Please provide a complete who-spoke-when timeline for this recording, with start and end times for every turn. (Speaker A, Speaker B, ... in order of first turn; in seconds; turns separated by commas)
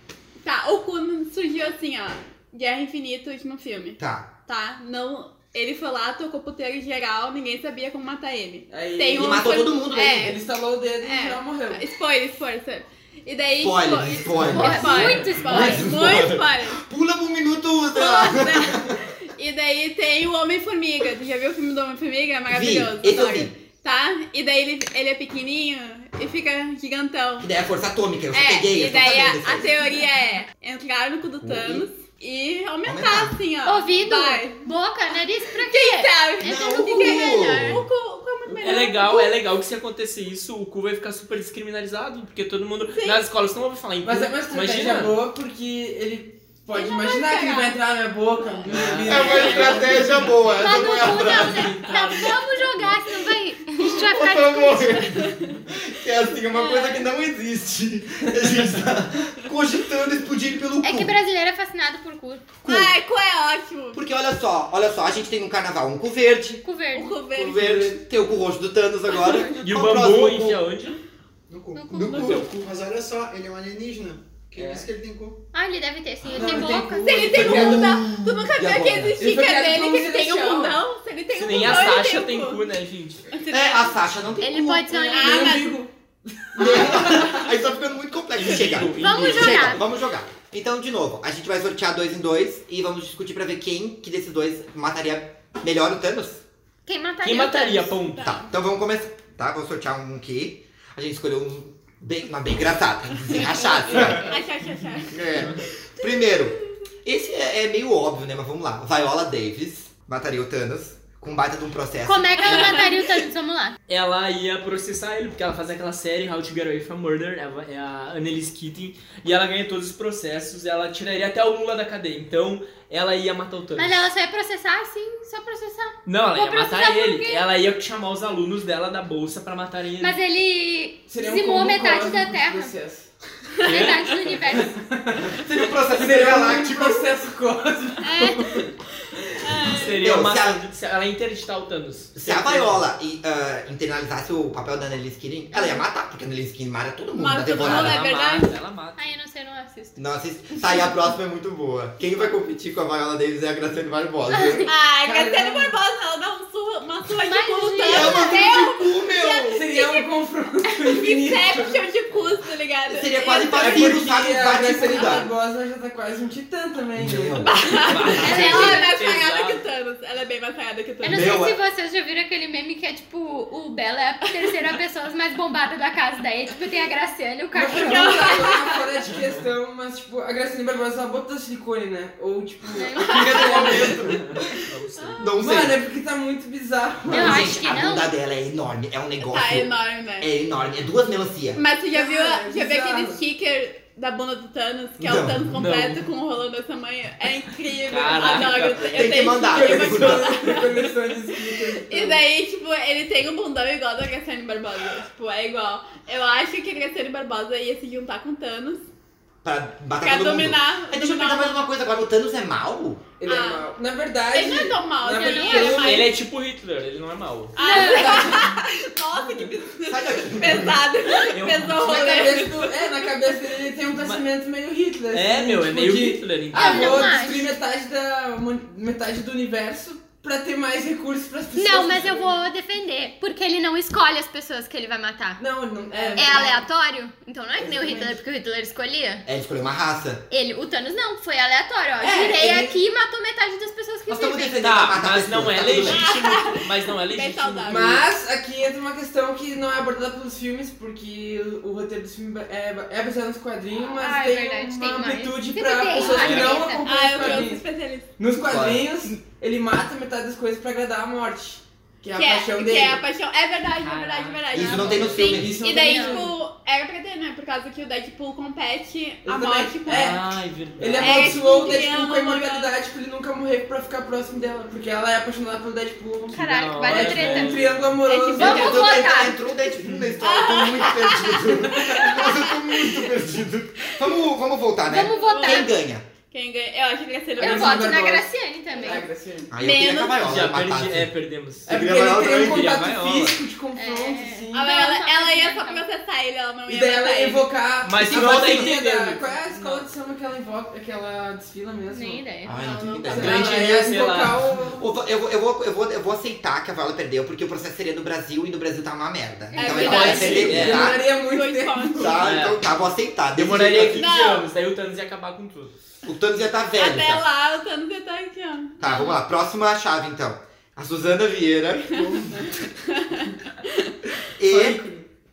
Speaker A: 0.4-10.4, Speaker B: 4.0-4.3, Speaker C: 8.7-11.8, Speaker B: 9.1-10.4, Speaker A: 11.0-16.8, Speaker B: 13.6-19.0, Speaker D: 14.4-15.9, Speaker A: 17.9-27.5, Speaker B: 22.5-23.5, Speaker B: 27.4-29.7, Speaker A: 28.3-34.7, Speaker B: 31.4-31.9, Speaker B: 32.8-33.4, Speaker D: 33.6-37.7, Speaker A: 35.6-39.4, Speaker B: 36.4-37.9, Speaker C: 38.5-38.8, Speaker E: 38.6-45.2, Speaker A: 42.9-43.2, Speaker C: 44.0-50.3, Speaker A: 46.7-47.8, Speaker E: 48.7-49.9, Speaker B: 49.0-51.7, Speaker D: 49.2-49.7, Speaker D: 50.5-55.0, Speaker E: 50.7-53.0, Speaker B: 53.8-61.1, Speaker A: 54.9-55.6, Speaker A: 56.5-57.1, Speaker D: 60.8-62.5, Speaker B: 62.6-62.9, Speaker A: 62.6-64.0, Speaker B: 63.9-66.6, Speaker D: 66.6-67.2, Speaker A: 66.9-67.8, Speaker B: 67.3-70.6, Speaker C: 67.5-68.0, Speaker D: 69.2-69.5, Speaker E: 69.6-71.0, Speaker F: 71.5-75.4, Speaker D: 71.7-72.5, Speaker C: 74.5-74.9, Speaker D: 75.5-77.9, Speaker C: 76.2-78.0, Speaker A: 77.0-82.6, Speaker B: 77.3-79.2, Speaker C: 79.2-80.8, Speaker E: 81.3-83.2, Speaker A: 83.3-83.9, Speaker B: 83.5-84.9, Speaker D: 84.4-85.6, Speaker C: 84.9-87.5, Speaker A: 85.0-85.8, Speaker B: 86.5-96.4, Speaker E: 88.3-89.8, Speaker D: 89.0-89.8, Speaker D: 96.8-98.1, Speaker E: 97.2-98.3, Speaker A: 98.1-98.5, Speaker B: 98.2-104.3, Speaker A: 103.5-105.2, Speaker D: 103.7-104.3, Speaker B: 105.1-112.7, Speaker D: 112.0-113.8, Speaker A: 112.4-113.0, Speaker E: 113.9-124.0, Speaker D: 123.8-127.4, Speaker E: 126.0-130.2, Speaker D: 130.0-132.7, Speaker C: 131.1-133.1, Speaker A: 133.6-134.1, Speaker D: 133.6-134.8, Speaker E: 134.1-134.6, Speaker C: 134.6-138.7, Speaker B: 135.3-137.1, Speaker A: 138.0-138.7, Speaker A: 139.4-139.9, Speaker E: 139.7-142.8, Speaker B: 140.0-140.6, Speaker B: 142.2-148.0, Speaker A: 147.2-148.5, Speaker E: 147.6-149.0, Speaker D: 148.9-150.1, Speaker B: 150.0-154.7, Speaker D: 154.3-154.7, Speaker A: 154.6-160.1, Speaker C: 155.0-155.8, Speaker D: 157.2-158.6, Speaker B: 157.8-159.6, Speaker C: 159.5-161.8, Speaker A: 160.7-164.0, Speaker E: 162.1-162.4, Speaker B: 162.9-165.3, Speaker C: 163.5-167.6, Speaker A: 164.9-165.3, Speaker B: 166.9-168.7, Speaker A: 167.4-171.4, Speaker E: 167.8-169.6, Speaker D: 168.3-168.9, Speaker D: 171.0-178.6, Speaker B: 171.1-171.6, Speaker C: 177.5-184.4, Speaker A: 177.8-178.8, Speaker D: 182.8-183.9, Speaker A: 182.9-184.0, Speaker B: 183.5-184.3, Speaker E: 183.9-185.2, Speaker A: 185.0-185.6, Speaker B: 185.2-185.8, Speaker C: 185.4-187.6, Speaker D: 187.1-188.1, Speaker B: 187.1-191.6, Speaker A: 189.2-190.3, Speaker A: 191.5-200.9, Speaker C: 191.9-193.2, Speaker B: 195.0-195.5, Speaker E: 195.5-196.0, Speaker E: 197.9-199.1, Speaker B: 198.8-200.4, Speaker C: 199.4-202.2, Speaker A: 201.8-208.8, Speaker B: 209.4-213.0, Speaker A: 210.0-211.6, Speaker C: 213.2-216.1, Speaker A: 213.2-213.7, Speaker A: 214.3-216.1, Speaker D: 215.1-216.0, Speaker E: 215.7-217.6, Speaker A: 217.6-223.1, Speaker D: 217.6-218.5, Speaker C: 217.7-218.5, Speaker B: 219.8-220.8, Speaker E: 221.3-221.9, Speaker C: 221.7-232.4, Speaker E: 223.9-224.2, Speaker E: 225.1-227.1, Speaker D: 226.5-227.5, Speaker D: 231.5-235.4, Speaker C: 235.4-236.7, Speaker A: 235.9-236.5, Speaker D: 236.1-239.2, Speaker C: 237.6-238.2, Speaker B: 239.2-240.2, Speaker D: 240.3-245.0, Speaker C: 242.0-242.8, Speaker B: 244.1-246.0, Speaker E: 244.6-248.0, Speaker A: 245.9-248.0, Speaker C: 247.7-257.6, Speaker D: 253.9-257.4, Speaker E: 256.0-256.6, Speaker A: 256.8-258.1, Speaker C: 258.2-263.0, Speaker B: 258.4-259.1, Speaker A: 262.1-270.1, Speaker E: 263.8-265.3, Speaker B: 264.5-265.6, Speaker C: 264.8-266.3, Speaker D: 265.4-266.3, Speaker C: 269.2-279.1, Speaker E: 269.9-271.4, Speaker A: 271.0-272.7, Speaker E: 276.3-277.9, Speaker D: 276.3-277.7, Speaker A: 278.0-278.9, Speaker D: 278.3-279.4, Speaker B: 278.4-286.0, Speaker A: 280.2-283.0, Speaker D: 284.9-285.8, Speaker A: 285.1-285.7, Speaker A: 286.3-288.1, Speaker D: 287.4-289.1, Speaker C: 287.4-289.5, Speaker A: 288.7-289.0, Speaker B: 289.5-291.1, Speaker A: 289.6-290.4, Speaker E: 290.2-293.4, Speaker B: 291.6-292.8, Speaker C: 291.7-294.7, Speaker D: 293.7-295.9, Speaker A: 294.5-297.4, Speaker C: 296.7-302.2, Speaker E: 297.8-299.8, Speaker B: 298.1-298.7, Speaker D: 301.9-303.1, Speaker B: 302.4-303.5, Speaker A: 302.5-303.3, Speaker C: 303.1-304.8, Speaker E: 303.1-304.4, Speaker B: 304.8-311.0, Speaker A: 309.5-312.3, Speaker C: 309.6-312.2, Speaker E: 309.8-310.9, Speaker B: 312.0-314.1, Speaker E: 312.2-312.7, Speaker E: 313.3-315.7, Speaker A: 314.0-314.5, Speaker B: 316.1-317.2, Speaker A: 316.8-319.1, Speaker B: 318.8-322.0, Speaker C: 321.9-322.6, Speaker A: 322.4-323.9, Speaker B: 324.4-324.8, Speaker E: 324.5-325.0, Speaker C: 324.6-325.0